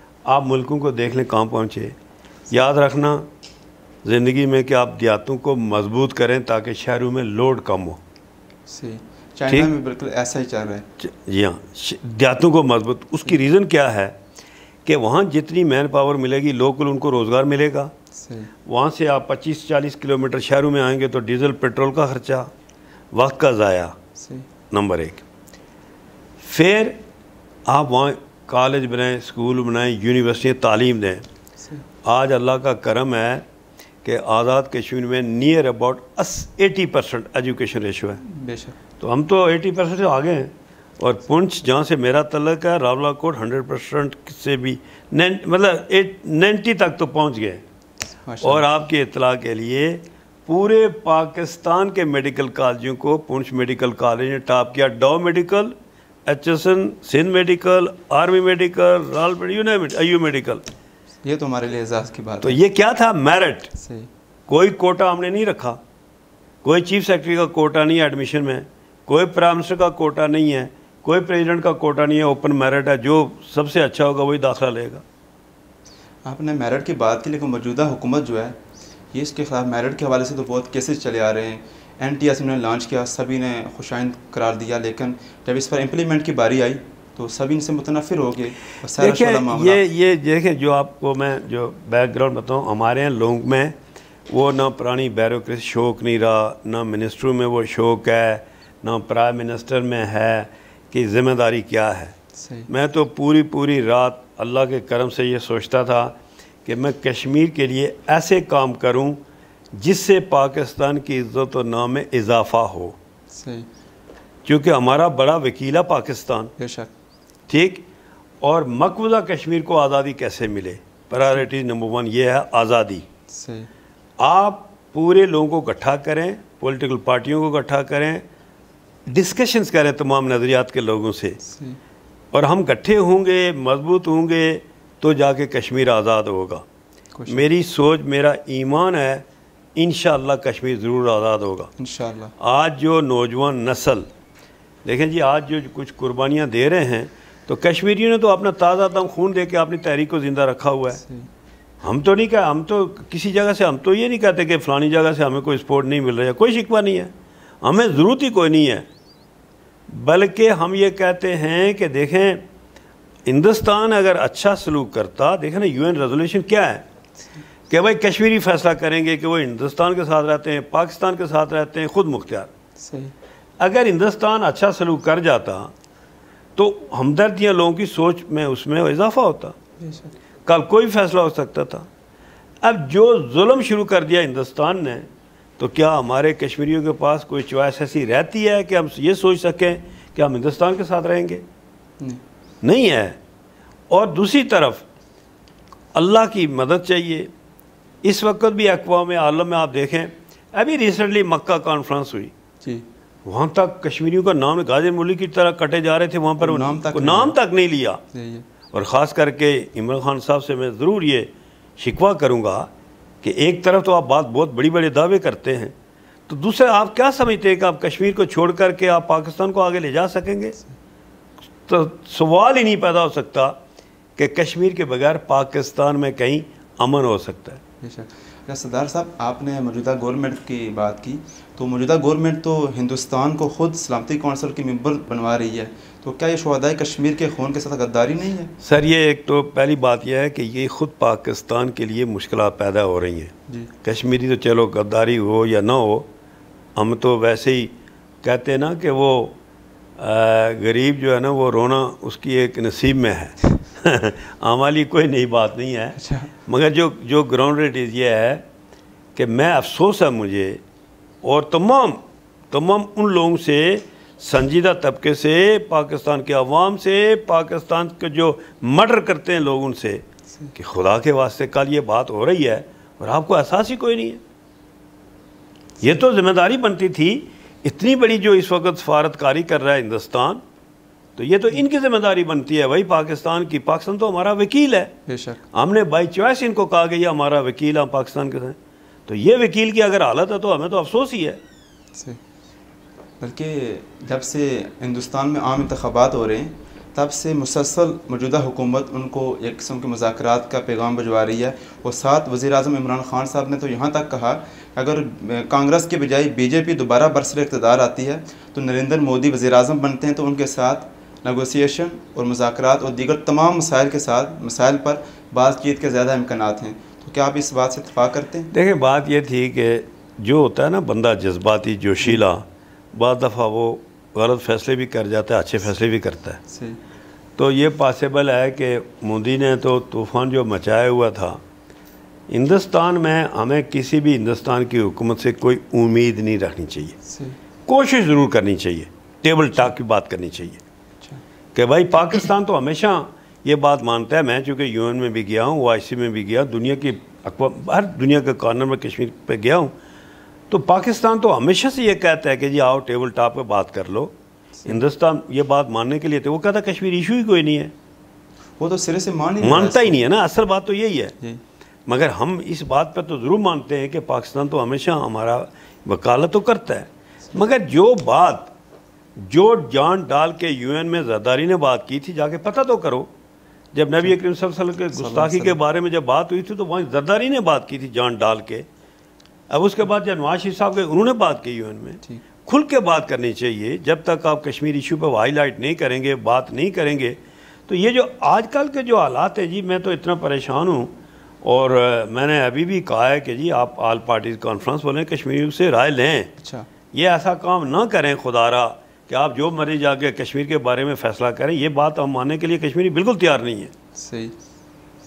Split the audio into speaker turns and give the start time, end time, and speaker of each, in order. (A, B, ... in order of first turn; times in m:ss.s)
0:00.2-0:02.0 A
0:02.5-0:03.3 A
0:04.0-0:08.0 A
0:08.7-0:10.8 B
0:11.0-0:14.2 A
0:14.8-0:17.9 A
0:18.1-0:18.5 B
0:18.6-0:22.5 A
0:23.1-0:24.0 A
0:24.2-0:24.4 B
0:24.7-0:25.2 A
0:26.4-0:27.0 A
0:27.7-0:31.2 A
0:32.0-0:33.4 A
0:34.0-0:38.2 A
0:38.2-0:38.8 B
0:39.0-0:47.6 A
0:48.2-0:48.6 B
0:48.4-1:00.6 A
1:01.2-1:02.6 B
1:02.4-1:03.7 A
1:03.8-1:04.1 B
1:04.5-1:05.8 A
1:06.6-1:15.0 A
1:16.2-1:18.6 B
1:19.1-1:29.8 B
1:29.0-1:33.8 A
1:34.3-1:42.1 A
1:42.4-1:42.7 B
1:42.7-1:49.2 A
1:49.7-1:53.0 A
1:53.3-1:53.7 B
1:54.4-1:56.5 A
1:56.6-1:56.9 B
1:57.5-1:57.8 A
1:58.4-2:03.0 A
2:03.3-2:03.7 B
2:04.2-2:08.2 A
2:09.1-2:11.4 A
2:11.4-2:11.8 B
2:12.3-2:16.6 A
2:17.1-2:17.4 B
2:17.3-2:21.7 A
2:21.8-2:22.3 B
2:22.4-2:24.0 A
2:24.8-2:31.0 A
2:31.0-2:31.3 B
2:31.8-2:38.9 A
2:39.9-2:42.4 A
2:43.2-2:46.8 A
2:47.7-2:52.5 A
2:52.8-2:53.1 B
2:53.6-2:55.7 A
2:56.6-2:59.5 A
2:59.8-3:00.1 B
3:00.4-3:01.9 A
3:02.6-3:11.4 A
3:12.6-3:13.2 A
3:13.9-3:14.8 A
3:15.9-3:17.3 A
3:18.0-3:22.3 A
3:23.2-3:28.0 A
3:26.4-3:27.3 B
3:28.1-3:28.4 B
3:28.7-3:32.7 A
3:33.2-3:35.7 A
3:36.3-3:40.6 A
3:41.7-3:43.6 A
3:44.2-3:47.6 A
3:47.8-3:58.5 B
3:58.6-4:03.3 A
4:03.8-4:06.1 A
4:06.8-4:09.4 A
4:10.0-4:18.4 A
4:16.0-4:16.3 B
4:19.1-4:20.6 A
4:21.2-4:34.2 A
4:35.8-4:40.4 A
4:41.2-4:44.9 A
4:45.1-4:45.4 B
4:45.5-4:51.4 A
4:53.2-5:18.5 B
5:18.5-5:26.4 A
5:26.5-5:26.8 B
5:27.4-5:31.4 A
5:32.3-5:37.0 A
5:37.1-5:37.4 B
5:37.6-5:40.6 A
5:41.5-5:49.7 A
5:50.5-5:54.1 A
5:54.6-5:57.7 A
5:58.6-6:00.0 B
5:59.4-6:01.1 A
6:01.9-6:08.5 A
6:09.2-6:13.1 A
6:13.7-6:18.6 A
6:14.9-6:15.6 B
6:19.5-6:36.3 A
6:36.4-6:36.7 B
6:36.9-6:43.7 A
6:43.9-6:44.3 B